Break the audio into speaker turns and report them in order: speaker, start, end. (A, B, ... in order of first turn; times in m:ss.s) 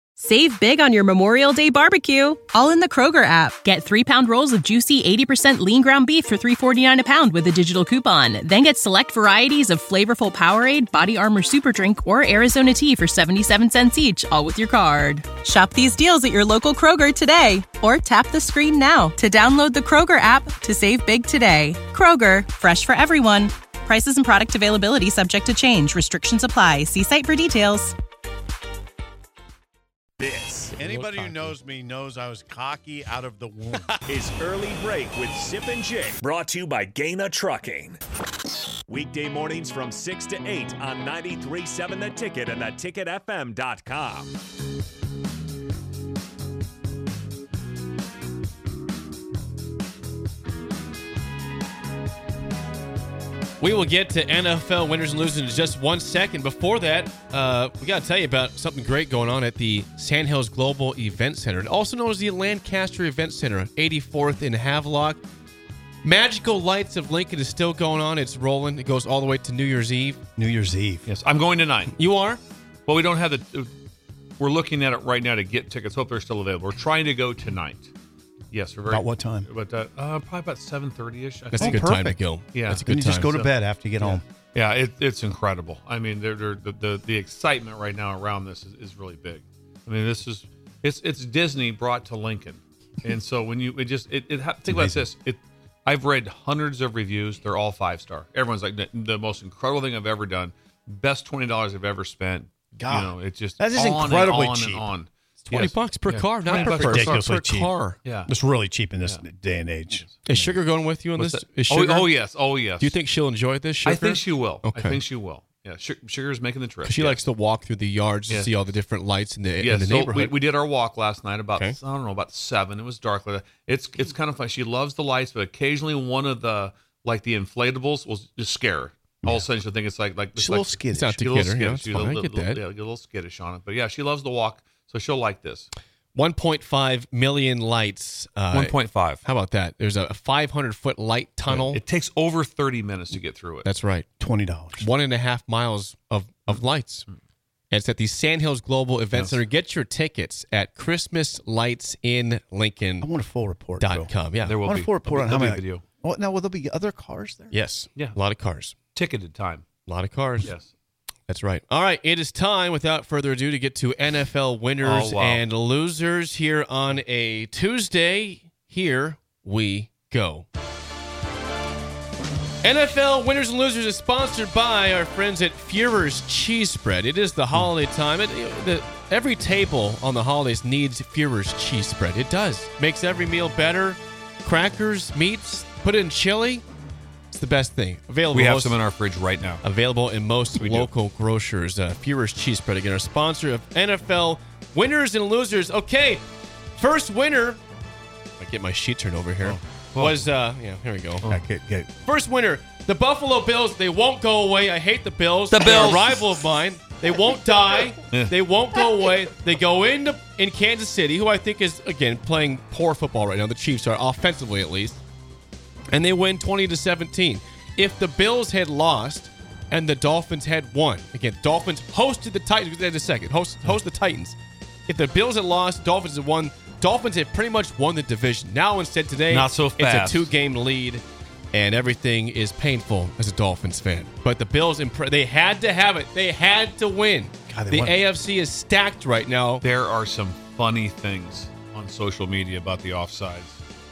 0:00.2-0:28.0 A
0:30.2-0:30.7 B
0:30.8-0:33.9 C
0:30.8-0:31.5 D
0:34.1-0:38.0 B
0:38.9-0:44.3 B
0:53.6-1:05.2 D
1:06.0-1:10.2 D
1:10.4-1:11.1 C
1:11.1-1:11.9 E
1:11.9-1:12.4 D
1:12.9-1:13.7 E
1:14.4-1:17.9 E
1:18.5-1:21.8 E
1:18.9-1:19.5 C
1:21.6-1:22.2 C
1:21.6-1:23.4 D
1:22.5-1:23.5 E
1:22.7-1:24.2 C
1:24.0-1:47.2 E
1:34.7-1:35.1 C
1:42.8-1:44.9 C
1:45.5-1:48.0 D
1:46.5-1:47.7 C
1:48.0-1:48.3 E
1:48.3-1:50.6 C
1:50.3-1:52.1 D
1:51.2-1:53.0 E
1:52.8-1:55.0 D
1:53.8-1:57.2 E
1:56.8-2:00.4 D
1:59.6-2:15.7 E
2:10.4-2:11.2 C
2:10.9-2:12.6 D
2:16.2-2:21.8 D
2:18.5-2:19.2 E
2:21.5-2:23.7 E
2:23.6-2:24.1 D
2:24.2-2:24.9 C
2:24.8-2:27.1 D
2:27.7-2:33.1 D
2:29.1-2:29.4 E
2:33.0-2:34.1 C
2:33.8-2:34.6 D
2:34.5-2:35.8 E
2:34.6-2:37.6 C
2:37.5-2:38.8 D
2:39.0-2:39.7 E
2:39.9-2:40.5 D
2:40.4-2:40.7 E
2:41.3-2:50.5 D
2:44.8-2:45.4 E
2:52.6-3:06.6 D
3:07.3-3:08.8 D
3:08.3-3:09.6 E
3:09.6-3:16.2 D
3:10.6-3:10.9 E
3:16.8-3:17.6 D
3:18.4-3:21.2 D
3:20.0-3:20.2 E
3:21.2-3:21.9 C
3:22.0-3:35.0 D
3:25.5-3:26.4 E
3:35.9-3:44.4 D
3:44.9-3:59.6 D
3:49.3-3:50.3 E
3:57.5-3:58.0 C
3:59.6-4:03.6 E